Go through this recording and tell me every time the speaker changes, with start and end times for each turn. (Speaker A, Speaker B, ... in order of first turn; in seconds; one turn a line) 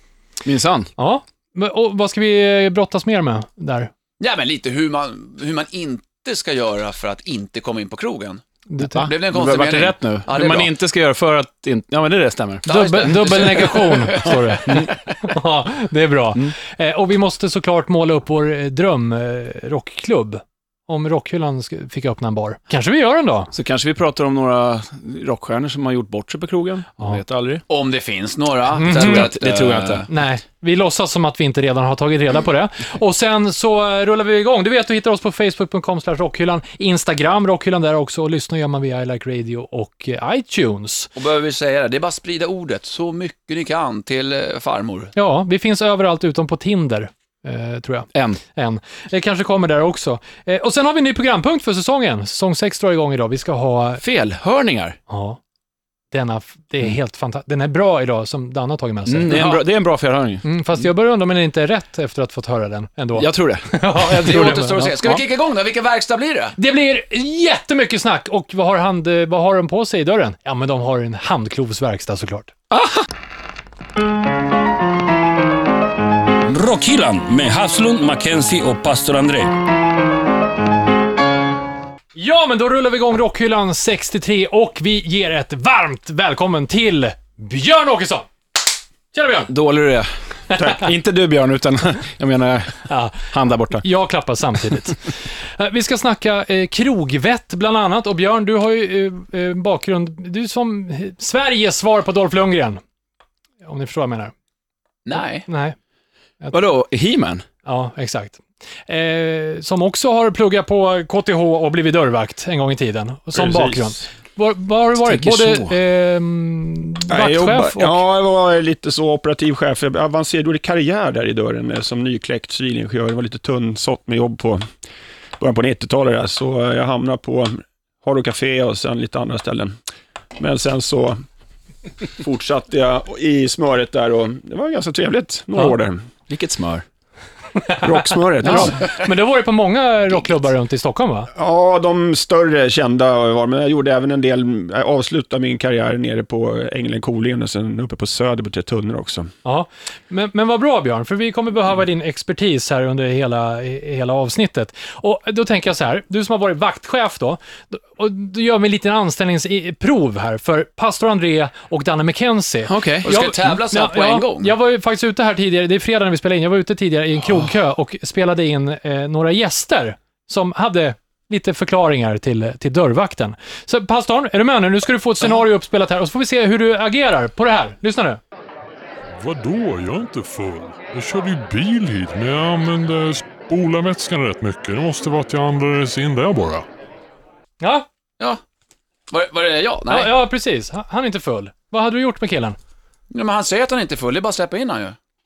Speaker A: 0.5-0.9
Speaker B: 1.0-3.9
Speaker C: 4.2-8.4
Speaker B: 8.7-9.1
Speaker A: 8.8-13.4
Speaker C: 9.1-10.7
Speaker C: 12.6-14.9
Speaker B: 12.7-23.5
Speaker A: 14.2-14.9
Speaker A: 23.5-27.6
Speaker C: 27.7-30.1
Speaker B: 28.8-29.3
Speaker A: 28.9-30.1
Speaker B: 30.1-41.1
Speaker C: 41.1-45.1
Speaker B: 45.1-54.0
Speaker A: 48.1-48.4
Speaker A: 54.0-55.0
Speaker B: 55.1-55.4
Speaker B: 56.1-59.5
Speaker A: 59.1-60.9
Speaker C: 59.3-59.6
Speaker B: 60.4-64.8
Speaker A: 63.2-63.7
Speaker C: 64.1-66.6
Speaker A: 64.4-65.2
Speaker B: 66.6-72.5
Speaker A: 72.7-73.1
Speaker D: 76.4-79.6
Speaker B: 82.2-88.3
Speaker B: 89.1-89.5
Speaker A: 89.5-93.8
Speaker B: 90.5-90.8
Speaker B: 92.9-102.8
Speaker B: 103.6-104.3
Speaker C: 105.1-105.5
Speaker B: 105.2-105.8
Speaker A: 106.5-107.4
Speaker B: 107.7-118.0
Speaker E: 113.3-114.0
Speaker A: 115.0-115.8
Speaker E: 117.1-124.7
Speaker E: 125.4-129.8
Speaker E: 130.4-131.2
Speaker E: 132.2-136.0
Speaker A: 136.3-136.8
Speaker B: 137.6-141.3
Speaker E: 137.8-138.9
Speaker E: 141.3-149.3
Speaker B: 149.4-178.2
Speaker A: 162.7-163.1
Speaker C: 163.0-164.6
Speaker F: 179.2-186.7
Speaker B: 187.6-187.9
Speaker C: 189.1-190.2
Speaker B: 189.9-192.6
Speaker C: 193.1-194.9